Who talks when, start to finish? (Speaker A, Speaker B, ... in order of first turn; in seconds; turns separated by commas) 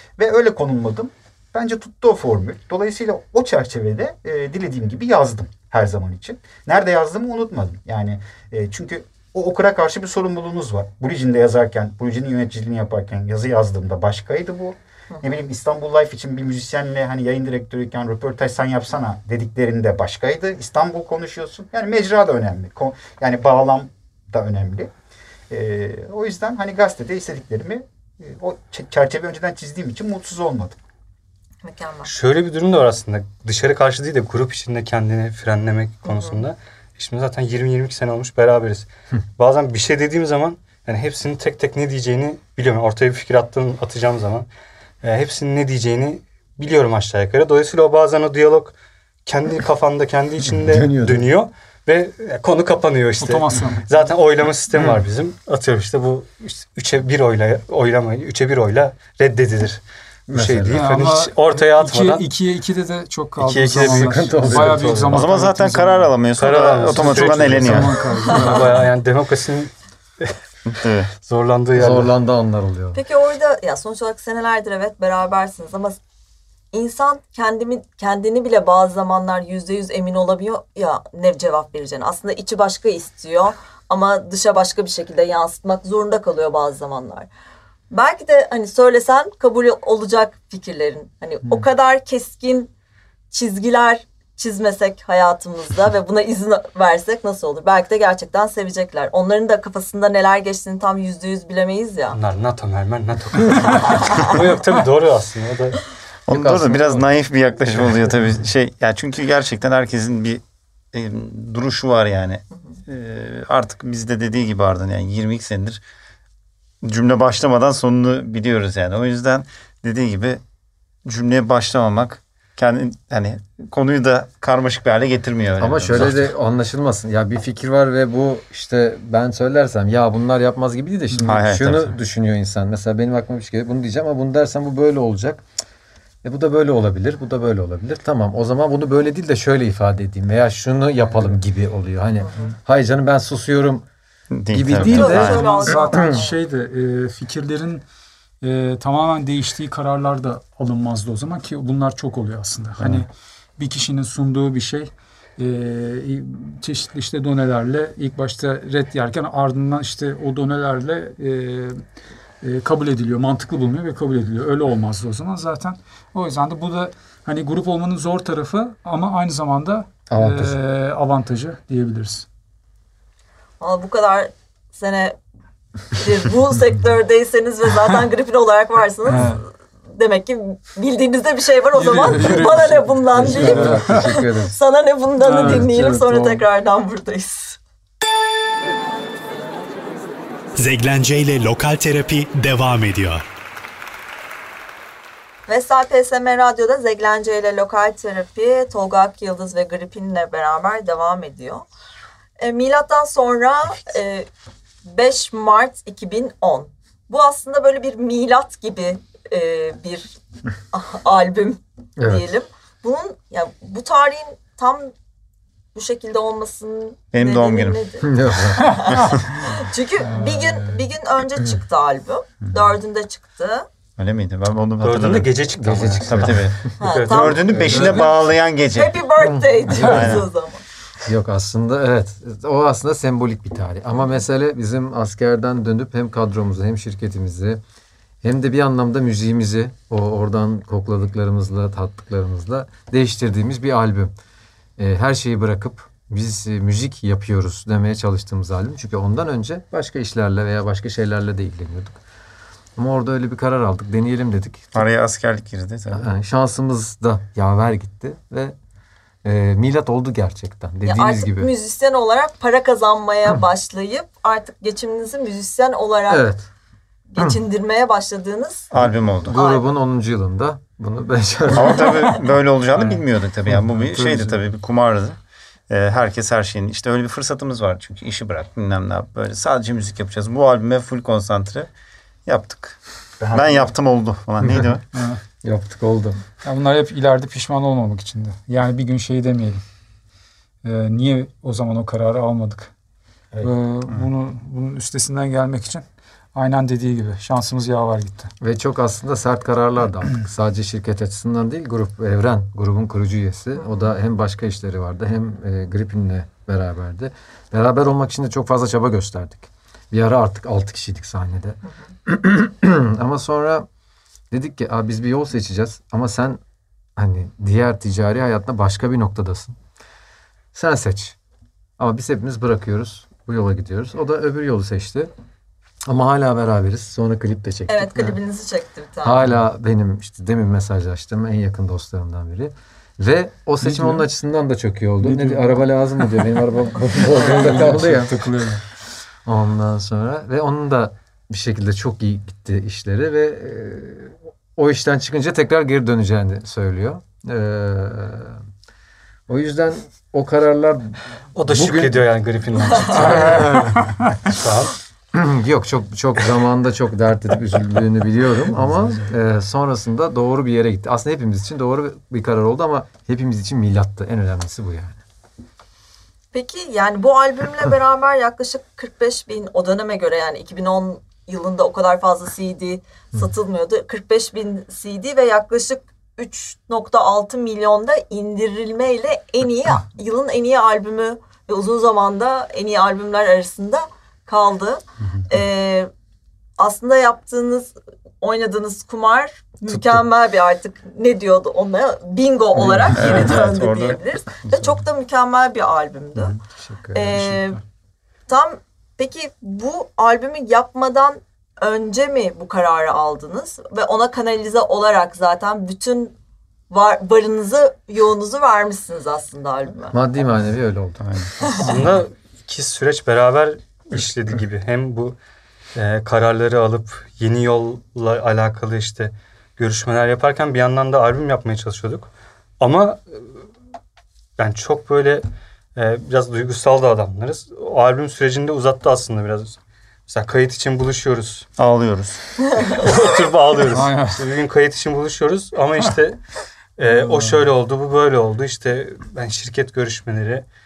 Speaker A: 0.2-24.9, Speaker A: 25.5-30.8, Speaker B: 31.6-32.1, Speaker C: 32.0-44.5, Speaker B: 36.0-36.4, Speaker C: 45.0-62.3, Speaker D: 50.5-51.3, Speaker E: 53.2-53.9, Speaker E: 54.7-55.0, Speaker D: 60.3-60.9, Speaker E: 60.7-66.2, Speaker C: 63.4-65.3, Speaker D: 63.8-65.2, Speaker F: 65.1-68.1, Speaker C: 66.3-70.4, Speaker E: 66.8-68.9, Speaker F: 70.7-71.1, Speaker C: 71.2-72.1, Speaker D: 71.7-73.0, Speaker B: 72.9-76.0, Speaker B: 76.7-87.3, Speaker B: 87.9-92.7, Speaker B: 93.3-102.2, Speaker C: 102.1-107.0, Speaker F: 106.3-115.8, Speaker F: 116.8-120.4, Speaker F: 121.0-126.3, Speaker D: 125.6-135.4, Speaker F: 131.2-131.9, Speaker D: 136.2-143.9, Speaker B: 142.2-142.5, Speaker F: 144.3-145.6, Speaker D: 144.5-146.2, Speaker B: 144.8-146.4, Speaker E: 144.8-147.8, Speaker E: 148.4-161.9, Speaker F: 152.8-153.1, Speaker E: 162.4-172.3, Speaker D: 170.1-170.6, Speaker B: 173.6-175.2, Speaker B: 175.9-187.6, Speaker E: 179.1-179.4, Speaker E: 181.7-184.2, Speaker D: 182.1-184.6, Speaker E: 185.2-185.7, Speaker D: 185.4-186.5, Speaker G: 190.6-193.2, Speaker B: 195.5-201.7, Speaker B: 202.4-204.3, Speaker B: 204.8-210.2, Speaker B: 210.7-214.9, Speaker D: 212.0-212.3, Speaker B: 215.8-223.7, Speaker F: 217.1-217.8, Speaker D: 218.0-218.8, Speaker E: 218.8-220.9, Speaker F: 224.0-225.4, Speaker C: 224.8-228.0, Speaker D: 225.6-226.7, Speaker F: 226.0-229.0, Speaker B: 226.8-228.0, Speaker E: 227.7-228.1, Speaker B: 228.7-230.6, Speaker D: 229.2-230.2, Speaker F: 229.8-230.2, Speaker D: 231.0-237.6, Speaker D: 238.2-244.1, Speaker D: 244.8-252.0, Speaker D: 252.8-254.9, Speaker F: 254.7-256.1, Speaker D: 255.9-258.6, Speaker D: 259.2-261.5, Speaker B: 260.9-266.3, Speaker D: 266.1-266.5, Speaker B: 267.1-268.7, Speaker F: 268.7-269.4, Speaker D: 268.8-272.2, Speaker B: 269.3-269.6, Speaker F: 271.5-275.2, Speaker B: 271.9-272.2, Speaker C: 272.8-273.0, Speaker E: 273.5-274.4, Speaker F: 275.7-281.7, Speaker F: 282.3-282.8, Speaker A: 283.2-283.7, Speaker F: 283.3-284.8, Speaker D: 284.4-284.7, Speaker E: 284.9-285.2, Speaker D: 285.4-286.2, Speaker E: 286.4-289.6, Speaker E: 290.6-292.7, Speaker E: 293.4-298.3, Speaker D: 298.4-313.7, Speaker D: 314.3-316.4, Speaker D: 317.0-319.6, Speaker D: 320.5-321.2, Speaker D: 321.8-325.1, Speaker D: 325.9-328.2, Speaker B: 327.7-329.2, Speaker D: 329.0-338.4, Speaker E: 333.6-334.1, Speaker E: 335.0-336.3, Speaker E: 336.9-338.6, Speaker D: 339.2-348.4, Speaker D: 349.3-352.1, Speaker C: 351.4-353.7, Speaker D: 352.7-353.9, Speaker E: 353.4-354.1, Speaker C: 354.3-354.8, Speaker D: 355.1-365.0, Speaker B: 366.3-385.9, Speaker B: 386.6-396.4, Speaker D: 389.7-390.0, Speaker F: 392.9-394.6, Speaker D: 396.2-397.4, Speaker B: 396.9-397.6, Speaker B: 398.3-406.1, Speaker B: 406.7-410.0, Speaker D: 409.9-411.1, Speaker F: 411.0-411.7, Speaker C: 411.6-415.2, Speaker C: 415.8-422.1, Speaker C: 422.6-423.3, Speaker C: 424.4-425.2, Speaker C: 425.8-431.5, Speaker F: 431.6-432.9, Speaker C: 432.6-436.2, Speaker E: 433.7-434.2, Speaker C: 436.8-440.4, Speaker E: 436.9-437.4